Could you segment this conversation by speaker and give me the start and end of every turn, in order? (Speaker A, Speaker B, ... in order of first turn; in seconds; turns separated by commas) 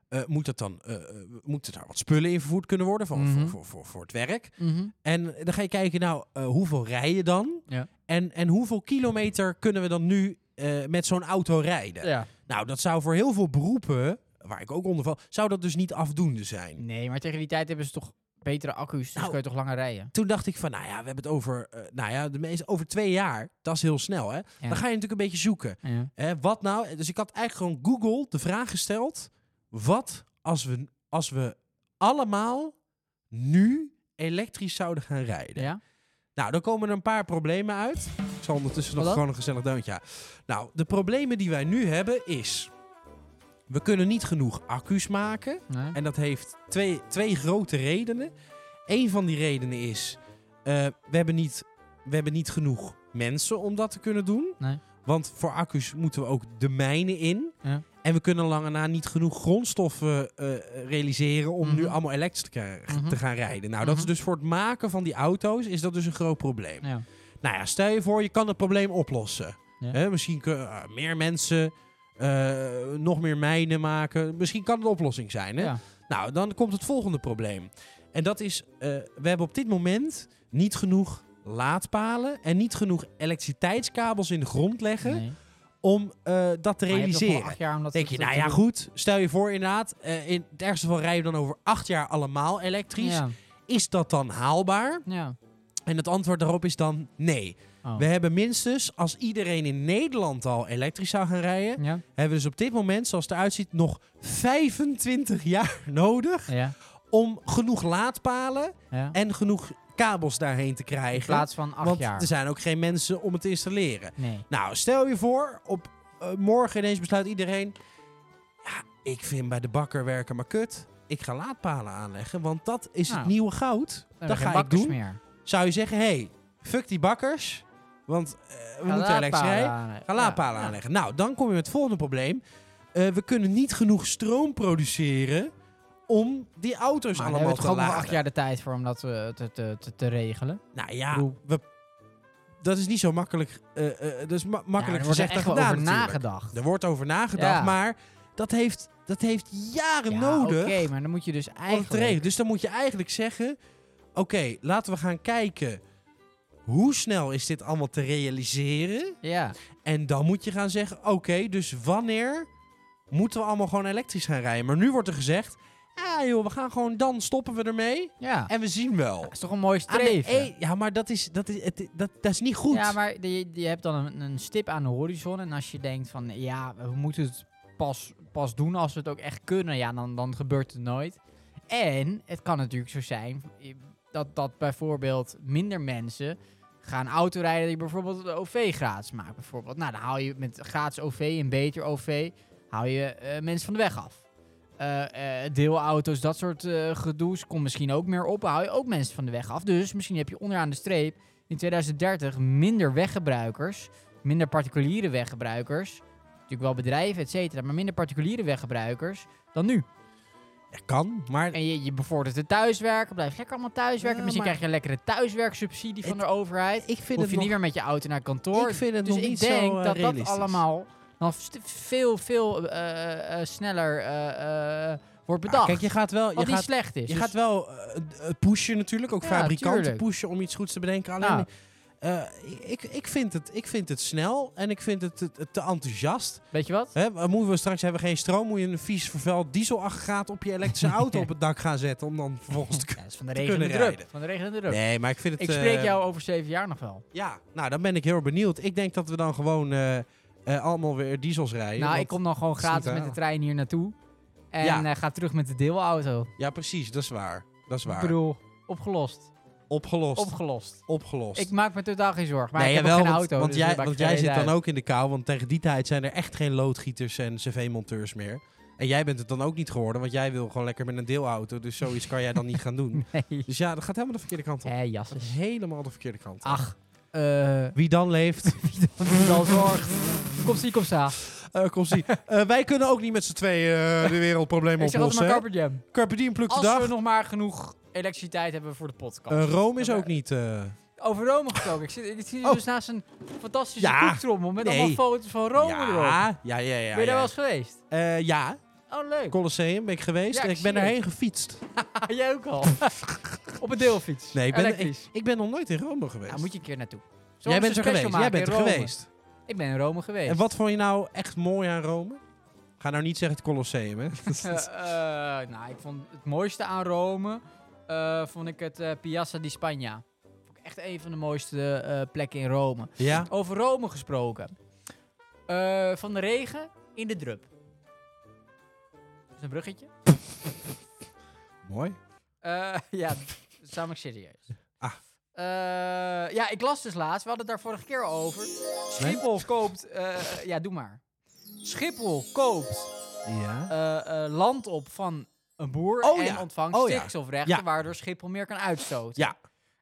Speaker A: 0.2-4.4, Speaker B: 3.1-3.5, Speaker B: 4.6-4.9, Speaker A: 5.2-7.4, Speaker A: 8.3-12.0, Speaker B: 12.0-12.3, Speaker A: 12.6-16.8, Speaker B: 16.8-20.1, Speaker A: 20.4-25.7, Speaker B: 25.8-26.1, Speaker A: 26.4-29.2, Speaker A: 29.8-31.5, Speaker A: 32.2-32.6, Speaker A: 33.3-35.6, Speaker A: 36.4-42.7, Speaker B: 39.0-39.2, Speaker A: 43.7-48.2, Speaker B: 45.7-46.0, Speaker A: 48.9-50.1, Speaker A: 50.8-54.5, Speaker A: 55.1-57.5, Speaker A: 58.0-66.8, Speaker B: 61.6-62.0, Speaker B: 62.9-63.2, Speaker B: 63.8-64.1, Speaker A: 67.4-71.7, Speaker A: 72.3-85.2, Speaker B: 85.0-85.4, Speaker A: 85.8-95.0, Speaker B: 86.9-88.6, Speaker B: 93.0-93.3, Speaker B: 95.0-95.3, Speaker A: 95.9-106.5, Speaker B: 101.8-102.0, Speaker B: 106.5-106.8, Speaker A: 107.1-117.7, Speaker B: 108.9-109.2, Speaker B: 111.1-112.3, Speaker B: 114.2-114.4, Speaker A: 119.1-124.8, Speaker B: 123.1-123.3, Speaker B: 124.2-125.2, Speaker A: 125.5-132.4, Speaker B: 128.8-130.8, Speaker A: 133.0-135.4, Speaker A: 136.1-138.1, Speaker B: 137.1-141.4, Speaker A: 140.8-141.6, Speaker A: 142.6-150.7, Speaker B: 144.8-146.6, Speaker B: 147.3-147.8, Speaker B: 150.1-152.2, Speaker A: 151.7-153.5, Speaker A: 154.2-155.7, Speaker A: 156.7-159.1, Speaker B: 159.2-159.6, Speaker A: 159.8-162.4, Speaker A: 163.1-169.3, Speaker B: 168.2-168.5, Speaker B: 169.2-170.5, Speaker A: 169.9-172.9, Speaker B: 172.7-181.2, Speaker B: 181.7-194.2, Speaker B: 194.8-209.8, Speaker A: 210.9-211.5, Speaker B: 211.5-227.3, Speaker A: 214.2-214.5, Speaker A: 216.9-217.5, Speaker A: 218.6-220.5, Speaker A: 225.5-231.5, Speaker B: 229.2-230.0, Speaker B: 231.2-231.5, Speaker A: 232.0-236.4, Speaker B: 236.5-236.9, Speaker A: 236.9-244.0, Speaker B: 240.8-241.2, Speaker B: 242.9-244.8, Speaker A: 244.7-245.9, Speaker B: 245.4-247.0, Speaker A: 247.1-252.1, Speaker B: 251.8-253.9, Speaker A: 252.6-253.1, Speaker B: 254.5-256.3, Speaker A: 256.4-258.1, Speaker B: 257.8-259.3, Speaker A: 259.7-260.3, Speaker B: 260.1-260.8, Speaker A: 260.9-261.5, Speaker B: 261.3-264.5, Speaker A: 262.6-274.7, Speaker B: 272.9-273.5, Speaker B: 274.6-275.4, Speaker A: 275.2-276.6, Speaker B: 276.4-277.8, Speaker A: 277.8-278.6, Speaker B: 278.4-281.2, Speaker A: 281.5-285.4, Speaker B: 284.8-285.8, Speaker A: 285.9-286.9, Speaker B: 286.5-290.1, Speaker A: 289.3-290.7, Speaker B: 291.0-296.3, Speaker A: 293.8-295.0, Speaker A: 295.6-297.3, Speaker B: 296.9-297.8, Speaker A: 297.9-298.6, Speaker B: 298.9-299.4, Speaker A: 299.3-301.6, Speaker B: 300.3-301.0, Speaker B: 301.9-303.0, Speaker B: 303.6-305.1, Speaker A: 304.3-306.4, Speaker B: 306.3-308.9, Speaker A: 307.5-309.1, Speaker B: 309.5-310.4, Speaker A: 310.3-312.2, Speaker A: 312.8-314.6, Speaker B: 314.2-324.6, Speaker A: 323.0-323.3, Speaker B: 325.5-327.5, Speaker B: 329.4-329.9, Speaker A: 331.7-332.0, Speaker B: 332.4-334.4, Speaker B: 335.4-341.0, Speaker B: 341.6-342.9, Speaker A: 343.3-343.7, Speaker B: 343.7-349.3, Speaker A: 346.1-347.6